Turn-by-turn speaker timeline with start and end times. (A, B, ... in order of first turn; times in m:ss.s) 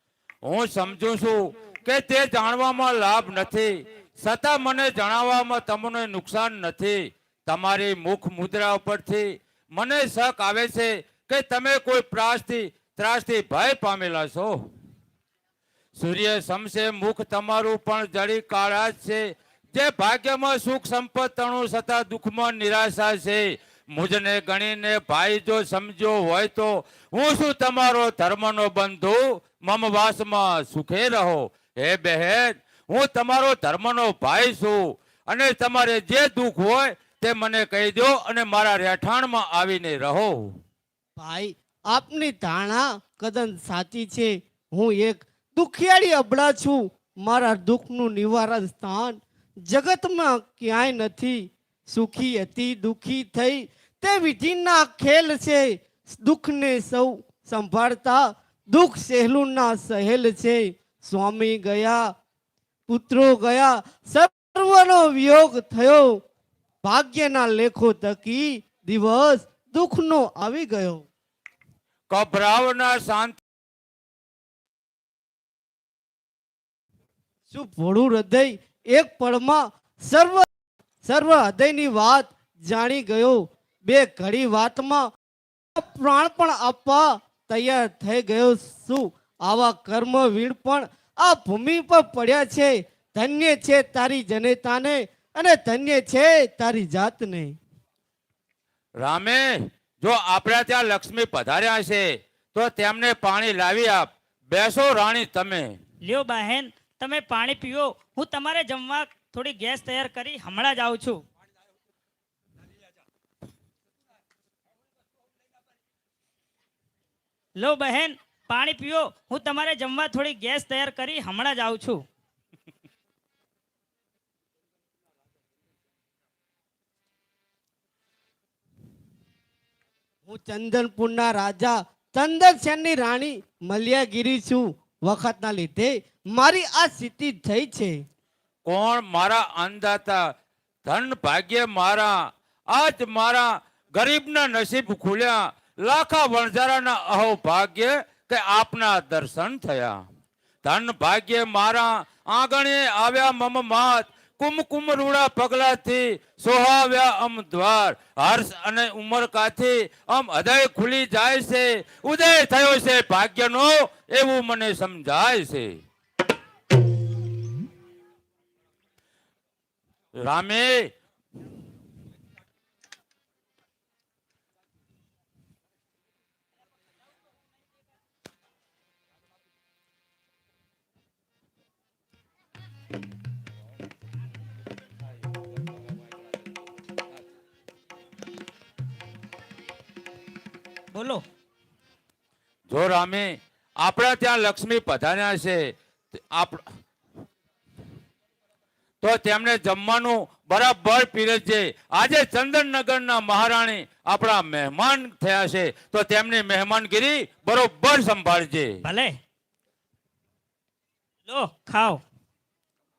0:00.4-0:14.7 A
0:16.0-0:40.6 A
0:41.2-1:02.1 B
1:02.9-1:06.2 B
1:06.8-1:11.1 B
1:12.1-1:13.4 A
1:17.5-1:20.5 B
1:21.0-1:25.1 B
1:25.8-1:37.6 B
1:39.0-1:45.8 A
1:46.0-1:51.2 C
1:57.6-2:02.0 C
2:10.3-2:18.0 B
2:18.6-2:20.3 A
2:20.8-2:30.0 A
2:30.6-2:45.8 A
2:50.2-2:50.9 A
3:10.9-3:11.2 C
3:12.7-3:15.8 A
3:16.3-3:16.7 A
3:19.0-3:28.8 A
3:28.8-3:29.2 C
3:31.3-3:32.0 C